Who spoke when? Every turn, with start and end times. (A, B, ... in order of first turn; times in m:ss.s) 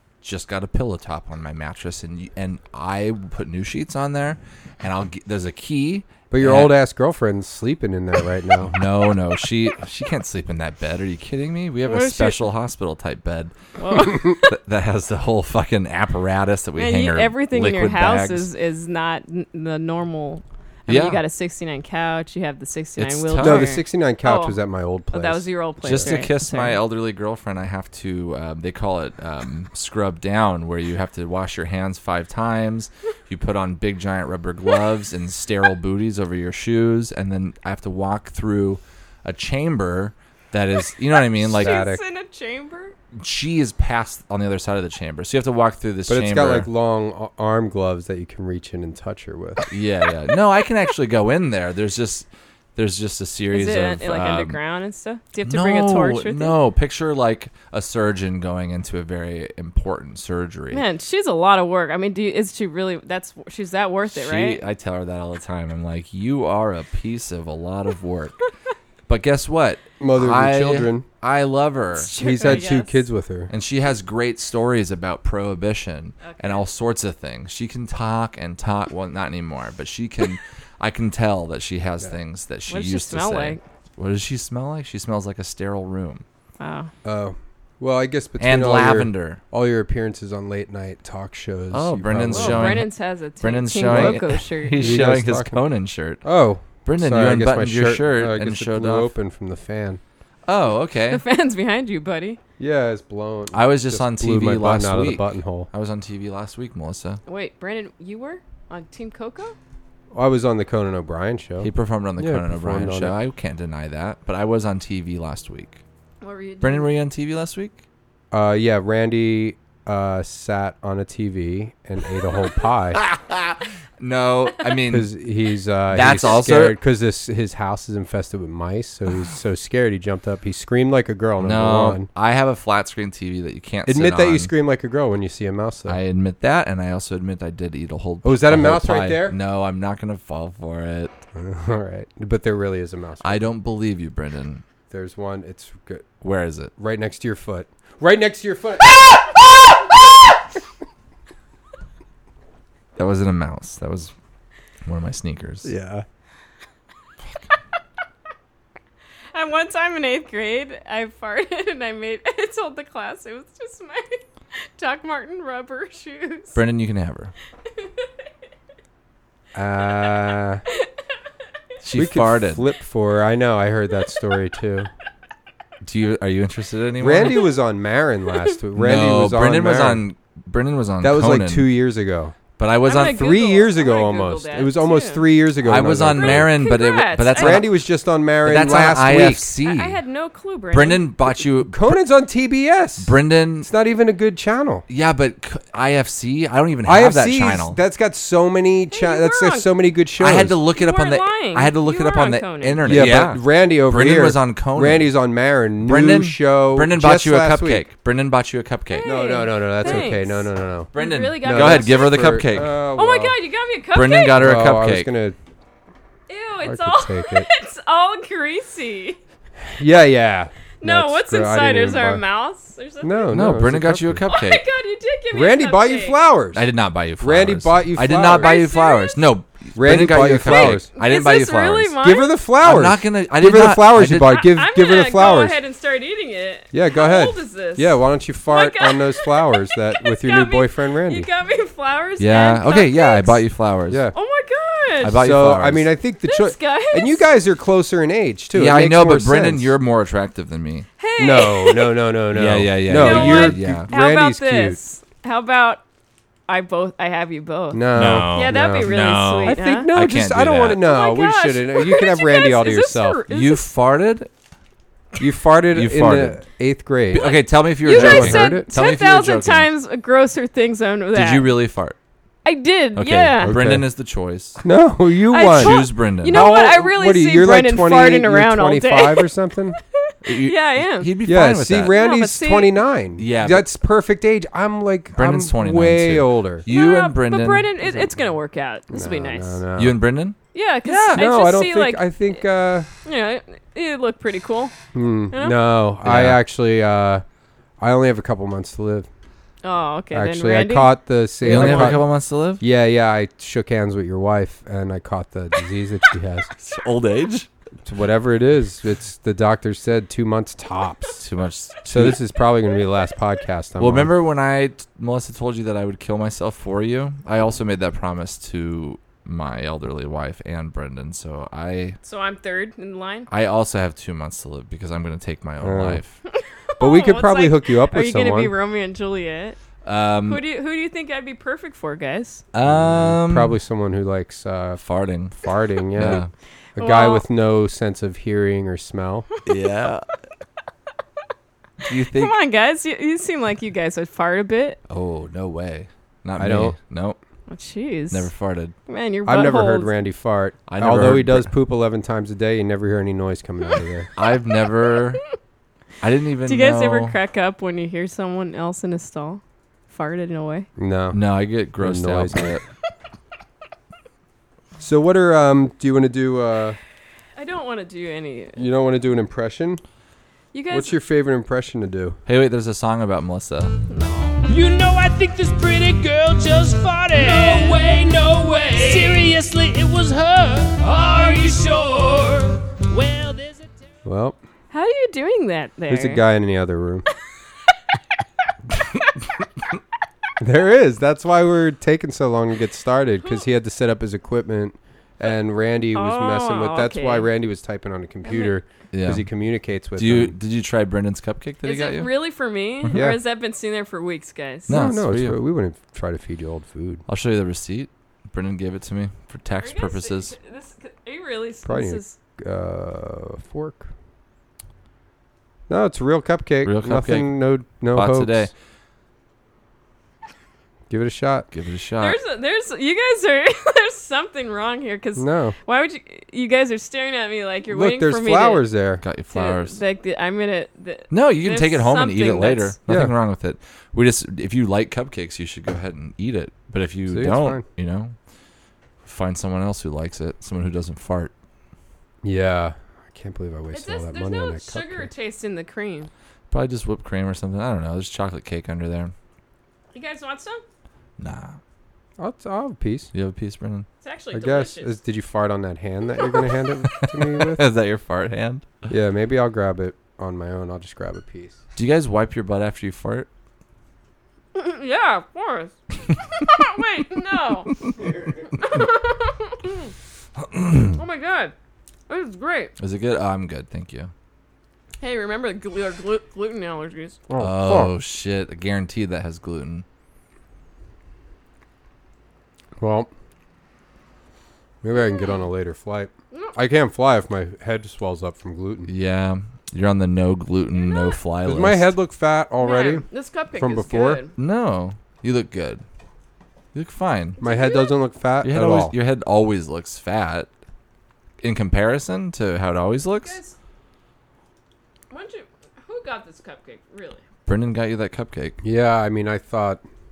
0:00.2-0:06.7 A
0:06.3-0:08.7 B
0:08.6-0:18.5 A
0:11.8-0:12.4 C
0:13.8-0:14.4 C
0:16.8-0:24.6 C
0:20.9-0:21.2 A
0:23.0-0:23.7 A
0:23.4-0:25.5 B
0:25.1-0:26.8 C
0:25.8-0:41.8 A
0:41.5-0:43.0 C
0:41.5-0:42.0 B
0:43.1-0:46.7 A
0:46.1-0:49.7 B
0:49.7-0:54.6 A
0:53.5-0:56.6 C
0:55.4-1:00.8 A
1:00.7-1:04.6 C
1:04.1-1:08.4 A
1:09.1-1:12.7 A
1:10.0-1:11.1 B
1:11.9-1:13.1 C
1:12.2-1:13.5 B
1:13.5-1:26.2 A
1:16.2-1:16.7 C
1:22.7-1:23.6 C
1:26.6-1:26.9 C
1:27.0-1:32.8 B
1:28.4-1:29.4 A
1:31.7-1:36.2 A
1:32.4-1:35.0 C
1:33.9-1:35.6 B
1:36.2-1:40.0 B
1:36.8-1:39.1 A
1:40.5-1:41.2 A
1:41.1-1:42.4 C
1:42.6-1:45.7 B
1:43.5-1:47.2 A
1:47.3-1:49.6 C
1:50.1-1:53.2 B
1:51.6-1:55.8 A
1:56.2-1:56.9 C
1:56.6-1:57.8 A
1:58.3-2:03.0 B
2:02.9-2:05.1 A
2:04.9-2:12.1 B
2:05.9-2:06.8 A
2:11.4-2:14.5 A
2:13.9-2:16.0 B
2:15.9-2:21.1 A
2:18.2-2:19.4 B
2:21.4-2:23.5 B
2:23.2-2:24.6 A
2:24.9-2:26.1 B
2:26.2-2:26.7 A
2:26.8-2:29.3 B
2:33.0-2:34.1 A
2:34.8-2:35.7 A
2:35.6-2:36.0 B
2:39.3-2:46.6 C
2:46.5-2:47.3 A
2:47.7-2:48.1 C
2:49.5-2:50.6 B
2:51.8-2:52.7 A
2:51.9-2:54.9 B
2:55.8-2:57.5 A
2:57.0-3:00.0 B
2:58.8-3:01.7 A
3:01.0-3:02.4 B
3:02.6-3:03.6 A
3:02.8-3:05.3 C
3:03.4-3:06.5 B
3:05.6-3:07.8 A
3:06.2-3:07.7 C
3:07.3-3:09.5 B
3:08.4-3:10.0 A
3:09.6-3:11.1 C
3:10.7-3:12.0 A
3:11.4-3:14.9 B
3:13.0-3:13.7 A
3:14.9-3:17.8 A
3:16.8-3:20.6 B
3:18.9-3:19.7 C
3:20.2-3:25.1 A
3:20.8-3:23.1 C
3:22.8-3:27.8 B
3:25.8-3:29.1 A
3:28.9-3:32.4 C
3:29.1-3:33.4 B
3:29.8-3:30.1 A
3:30.9-3:32.8 A
3:33.0-3:34.4 C
3:33.9-3:35.1 A
3:34.4-3:35.4 B
3:36.3-3:39.2 C
3:36.6-3:37.5 B
3:39.7-3:42.2 B
3:40.8-3:43.3 C
3:43.0-3:44.2 B
3:43.3-3:44.6 A
3:44.3-3:46.2 C
3:45.3-3:46.7 B
3:46.5-3:52.0 A
3:47.2-3:48.6 B
3:48.3-3:49.2 C
3:49.8-3:50.9 B
3:50.4-3:52.3 C
3:52.0-3:55.6 B
3:52.6-3:54.4 A
3:54.4-3:58.0 C
3:56.7-4:01.3 B
3:58.5-4:03.4 C
4:02.2-4:04.0 A
4:03.9-4:04.2 B
4:04.1-4:05.2 C
4:05.0-4:05.9 A
4:05.2-4:09.7 B
4:06.3-4:07.3 C
4:08.5-4:10.9 A
4:11.0-4:12.0 C
4:11.2-4:14.8 B
4:12.3-4:13.9 A
4:12.9-4:15.8 C
4:16.5-4:19.9 C
4:17.7-4:23.2 B
4:17.9-4:20.8 A
4:20.8-4:23.7 C
4:23.3-4:24.3 A
4:25.2-4:27.2 B
4:25.7-4:26.4 A
4:27.1-4:29.7 A
4:27.1-4:31.6 C
4:27.8-4:28.7 B
4:31.1-4:32.0 A
4:32.4-4:33.6 C
4:33.0-4:34.6 A
4:33.4-4:33.9 B
4:34.6-4:39.8 B
4:35.3-4:39.3 C
4:35.5-4:36.5 A
4:40.0-4:41.1 C
4:40.2-4:42.0 A
4:41.2-4:46.7 B
4:41.9-4:42.8 C
4:43.2-4:43.7 A
4:45.1-4:47.9 A
4:46.7-4:49.6 C
4:48.9-4:50.0 B
4:49.8-4:51.3 A
4:50.5-4:52.1 C
4:51.1-4:52.9 B
4:53.0-4:54.7 C
4:54.9-4:57.2 B
4:56.0-4:56.4 A
4:57.8-4:59.1 B
4:59.6-5:02.0 C
5:00.1-5:02.1 B
5:01.4-5:02.6 A
5:02.6-5:06.5 B
5:06.6-5:07.5 A
5:07.8-5:11.2 B
5:11.2-5:12.2 A
5:11.9-5:14.1 B
5:13.8-5:22.0 A
5:22.0-5:23.3 C
5:23.3-5:26.2 A
5:25.6-5:26.0 B
5:26.3-5:29.6 C
5:26.8-5:28.5 B
5:29.8-5:30.4 A
5:30.2-5:32.4 C
5:32.5-5:33.6 A
5:32.6-5:34.8 B
5:34.8-5:36.3 A
5:35.4-5:36.2 B
5:36.8-5:39.3 B
5:36.8-5:37.2 C
5:39.5-5:40.1 A
5:41.8-5:42.3 A
5:42.1-5:44.8 C
5:44.9-5:47.2 A
5:46.4-5:46.8 B
5:47.5-5:48.3 C
5:48.1-5:48.8 A
5:48.9-5:49.9 C
5:49.3-5:54.1 B
5:50.7-5:51.5 A
5:54.2-5:55.2 A
5:56.0-5:57.2 A
5:56.4-6:00.7 C
6:00.8-6:01.2 B
6:01.1-6:02.6 A
6:01.8-6:02.6 B
6:04.8-6:06.8 B
6:07.4-6:08.7 C
6:08.6-6:09.8 B
6:10.5-6:11.0 C
6:10.7-6:12.2 B
6:12.3-6:13.8 A
6:13.9-6:14.5 C
6:14.5-6:23.7 D
6:17.2-6:17.9 C
6:18.7-6:19.2 C
6:24.0-6:24.4 B
6:24.7-6:26.2 C
6:25.9-6:27.1 B
6:30.4-6:40.4 B
6:36.0-6:37.3 C
6:38.2-6:38.6 C
6:38.9-6:39.3 A
6:40.0-6:42.1 A
6:41.6-6:44.8 C
6:42.8-6:43.1 A
6:42.9-6:43.2 B
6:44.7-6:45.4 A
6:44.7-6:47.0 B
6:47.1-6:50.4 A
6:49.6-6:52.2 C
6:51.6-6:53.9 B
6:55.7-6:58.5 B
6:56.6-6:57.4 A
6:57.9-6:58.5 A
7:00.9-7:01.5 B
7:01.5-7:02.2 A
7:02.0-7:08.7 C
7:05.2-7:05.6 B
7:07.7-7:09.0 B
7:09.0-7:09.8 A
7:09.3-7:12.8 C
7:11.1-7:18.2 A
7:12.9-7:13.1 B
7:17.1-7:17.6 B
7:19.0-7:21.3 A
7:22.2-7:25.1 B
7:23.7-7:26.1 C
7:26.5-7:29.1 A
7:29.9-7:30.6 C
7:31.2-7:31.6 A
7:32.2-7:33.1 B
7:33.1-7:33.9 A
7:34.0-7:35.0 C
7:34.3-7:37.6 B
7:37.0-7:38.7 A
7:38.9-7:41.6 B
7:41.8-7:43.3 A
7:44.6-7:45.7 C
7:46.2-7:47.8 C
7:48.5-7:49.9 C
7:50.4-7:51.0 A
7:51.0-7:51.5 C
7:52.1-7:52.7 C
7:52.8-7:54.1 A
7:55.0-7:57.2 C
7:57.3-7:57.9 B
7:57.4-7:59.8 A
8:02.8-8:03.1 B
8:04.8-8:08.9 B
8:05.0-8:05.4 C
8:06.3-8:06.6 C
8:08.9-8:11.9 A
8:10.8-8:11.1 C
8:11.4-8:14.2 B
8:12.6-8:14.3 C
8:14.4-8:15.8 A
8:16.7-8:17.4 A
8:17.4-8:18.0 C
8:17.4-8:18.9 B
8:18.4-8:20.5 A
8:21.4-8:23.4 A
8:23.2-8:23.6 C
8:25.1-8:27.2 C
8:27.5-8:28.6 A
8:28.6-8:29.8 B